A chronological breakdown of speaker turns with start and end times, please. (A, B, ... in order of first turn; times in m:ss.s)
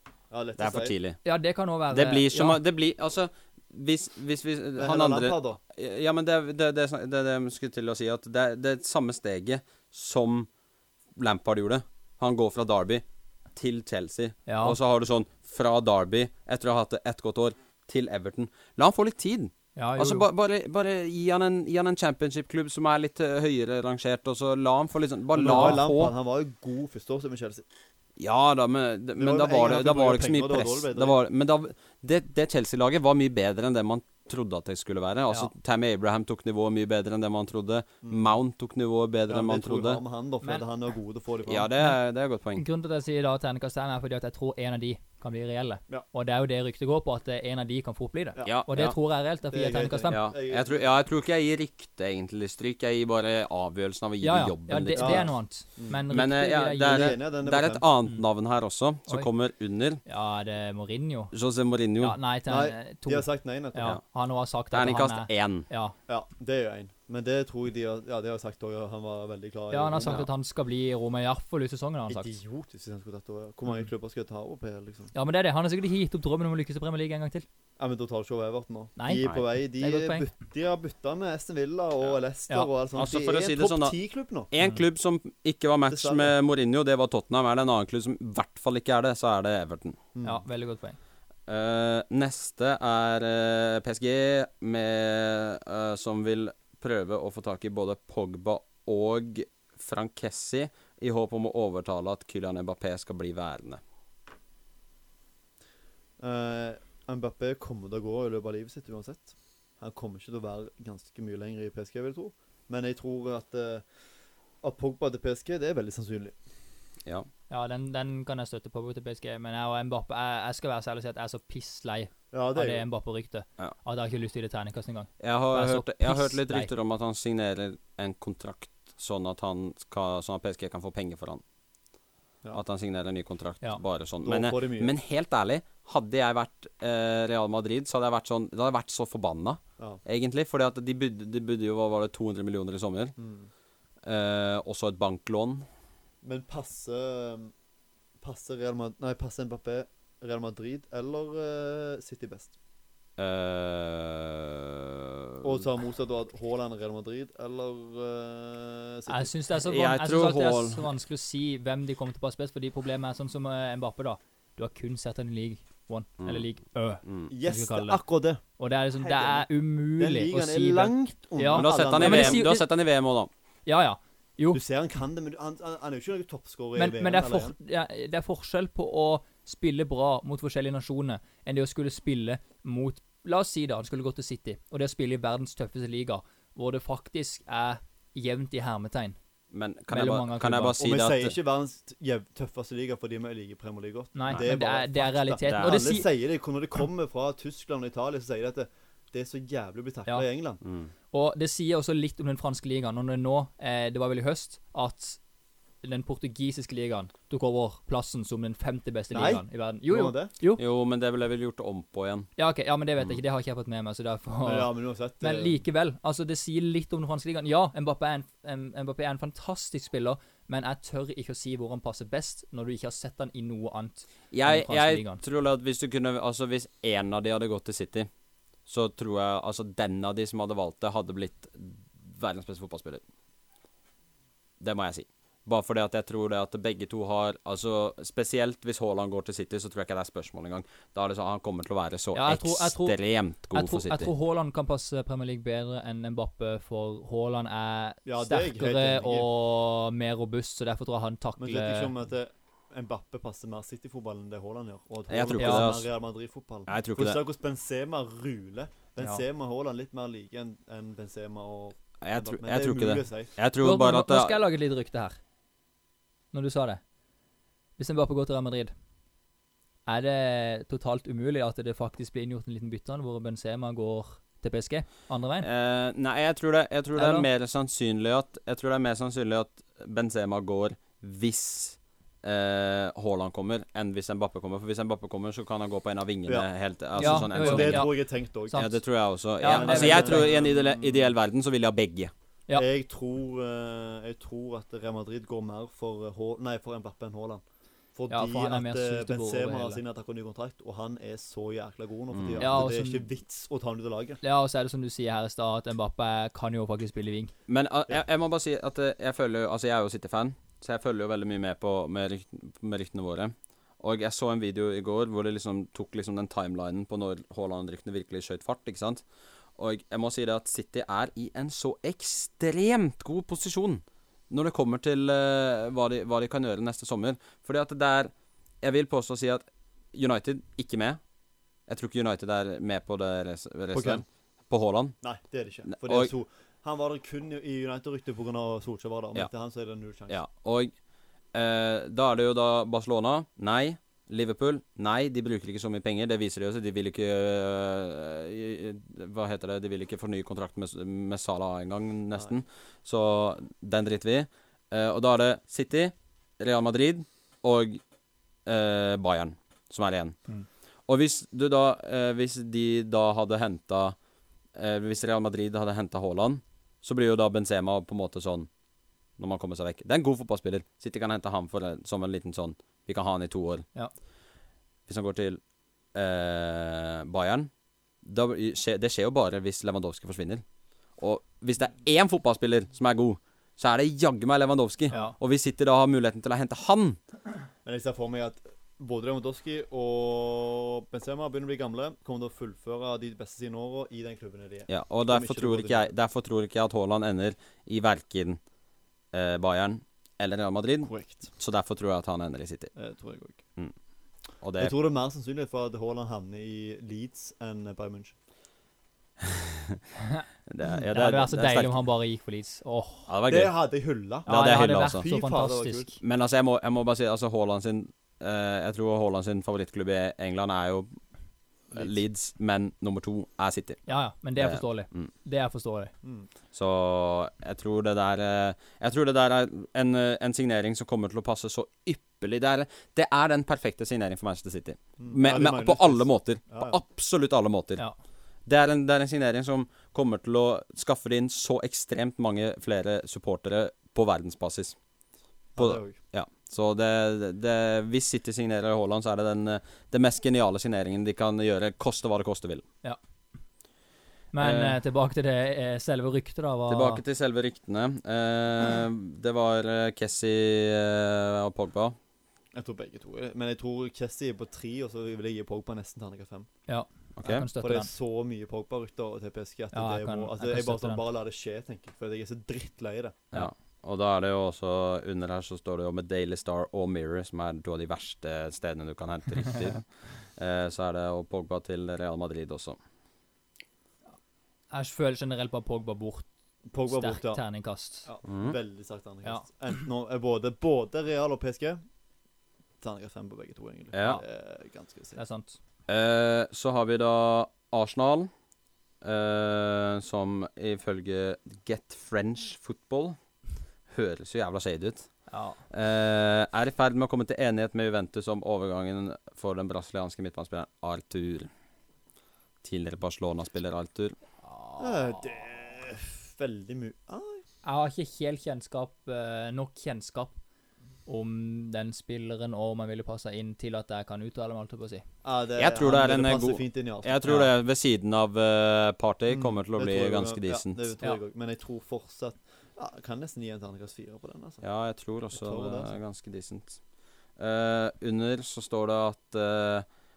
0:00.3-0:01.0 A
0:00.6-0:01.2 B
0:01.2-0:02.6 C
0:01.9-0:10.5 B
0:04.8-0:05.6 A
0:11.2-0:13.0 B
0:13.6-0:26.1 B
0:14.5-0:14.8 C
0:19.8-0:20.3 C
0:25.3-0:27.6 A
0:25.4-0:25.8 C
0:28.2-0:40.0 B
0:29.2-0:31.2 A
0:38.0-0:38.3 A
0:39.3-0:41.7 A
0:41.5-0:42.6 B
0:42.6-0:50.2 C
0:48.4-0:49.0 B
0:49.5-0:50.9 A
0:50.1-0:55.3 B
0:54.2-0:57.2 C
0:55.0-0:56.0 A
0:56.1-1:00.0 B
0:56.8-0:57.8 A
1:00.1-1:01.3 C
1:01.3-1:02.2 B
1:02.0-1:06.0 C
1:02.5-1:03.9 A
1:04.7-1:05.7 B
1:06.1-1:10.3 A
1:09.7-1:12.4 C
1:12.1-1:15.1 A
1:15.1-1:17.4 C
1:17.8-1:24.5 A
1:19.0-1:20.3 C
1:22.9-1:24.0 B
1:24.5-1:30.0 B
1:25.9-1:26.3 A
1:30.1-1:30.4 A
1:30.2-1:31.0 C
1:31.5-1:43.8 B
1:46.2-1:53.9 A
1:54.6-1:56.4 A
1:57.5-2:06.7 C
2:02.3-2:02.8 A
2:05.2-2:11.4 B
2:12.5-2:23.1 B
2:14.2-2:14.9 A
2:23.2-2:23.5 A
2:24.0-2:25.6 B
2:26.2-2:27.5 A
2:28.2-2:32.5 A
2:33.2-2:35.5 B
2:35.4-2:39.3 A
2:39.1-2:48.0 C
2:39.6-2:40.9 B
2:47.0-2:47.3 B
2:47.3-2:48.4 A
2:48.6-2:52.7 C
2:49.0-2:52.4 A
2:51.5-2:53.3 B
2:53.7-2:54.6 C
2:54.5-2:57.5 A
2:56.8-3:09.2 C
3:09.5-3:11.4 B
3:09.9-3:10.8 C
3:10.8-3:20.6 A
3:14.1-3:16.1 C
3:15.4-3:15.9 B
3:20.6-3:20.9 B
3:21.1-3:25.2 C
3:25.8-3:30.6 C
3:29.1-3:30.3 A
3:30.6-3:32.3 B
3:32.4-3:45.2 C
3:34.4-3:35.6 A
3:44.3-3:48.1 B
3:48.7-3:53.0 B
3:54.6-4:04.1 B
4:02.1-4:03.0 C
4:03.5-4:11.9 C
4:08.0-4:09.3 A
4:11.4-4:23.3 A
4:15.1-4:15.9 B
4:15.4-4:15.7 C
4:16.7-4:17.2 B
4:22.0-4:24.4 B
4:23.6-4:25.2 C
4:26.3-4:26.8 C
4:27.8-4:28.7 C
4:29.9-4:35.5 C
4:35.4-4:48.0 B
4:37.0-4:37.3 C
4:46.3-4:48.7 A
4:47.0-4:47.9 C
4:48.5-4:52.1 B
4:49.4-4:50.3 C
4:49.4-4:51.1 A
4:52.5-4:57.4 A
4:58.0-5:04.2 A
4:58.1-4:59.8 C
5:02.1-5:02.7 B
5:02.4-5:03.1 C
5:04.2-5:07.3 C
5:07.5-5:19.0 B
5:19.6-5:31.0 B
5:31.7-5:35.0 B
5:33.7-5:34.0 A
5:35.0-5:40.2 A
5:35.7-5:36.1 B
5:40.1-5:40.7 B
5:41.3-5:57.8 B
5:58.4-6:00.2 B
6:00.9-6:04.0 B
6:04.6-6:08.5 B
6:09.2-6:13.6 B
6:14.9-6:15.4 B
6:15.9-6:17.5 B
6:18.0-6:20.4 B
6:21.0-6:27.0 B
6:27.6-6:35.9 A
6:34.7-6:38.4 B
6:39.1-6:42.7 B
6:40.8-6:41.3 A
6:42.8-6:43.4 A
6:44.4-6:44.7 B
6:44.6-6:48.1 A
6:49.2-6:49.8 B
6:50.0-6:53.1 C
6:50.5-6:51.7 B
6:53.1-6:53.5 B
6:53.3-6:54.3 A
6:54.2-6:55.1 B
6:54.3-6:56.0 C
6:54.9-6:55.9 A
6:56.0-7:00.9 B
7:01.7-7:03.8 B
7:03.9-7:05.9 C
7:04.4-7:05.1 B
7:06.0-7:06.3 A
7:06.5-7:17.8 B
7:15.0-7:16.8 A
7:18.4-7:24.8 B
7:25.6-7:26.0 A
7:25.6-7:32.6 B
7:34.3-7:37.0 C
7:34.4-7:34.8 B
7:36.7-7:42.0 B
7:42.5-7:46.5 A
7:46.7-7:47.9 C
7:47.2-7:47.5 B
7:47.6-7:53.2 A
7:49.7-7:51.0 C
7:53.3-8:02.8 B
8:04.7-8:06.3 C
8:06.7-8:07.4 A
8:06.9-8:08.1 C
8:08.1-8:11.8 A
8:08.3-8:08.6 B
8:12.8-8:15.2 A
8:13.9-8:14.2 B
8:15.1-8:15.6 C
8:15.9-8:18.3 B
8:19.0-8:23.2 B
8:23.9-8:25.1 B
8:25.3-8:25.6 C
8:25.7-8:31.5 B
8:32.6-8:34.1 B
8:34.5-8:35.2 C
8:34.8-8:37.4 A
8:37.6-8:40.4 C
8:41.1-8:45.0 C
8:45.2-8:47.3 A
8:45.6-8:50.9 B
8:49.3-8:54.6 A
8:54.6-8:56.8 B
8:55.3-8:55.9 A
8:57.4-8:59.9 B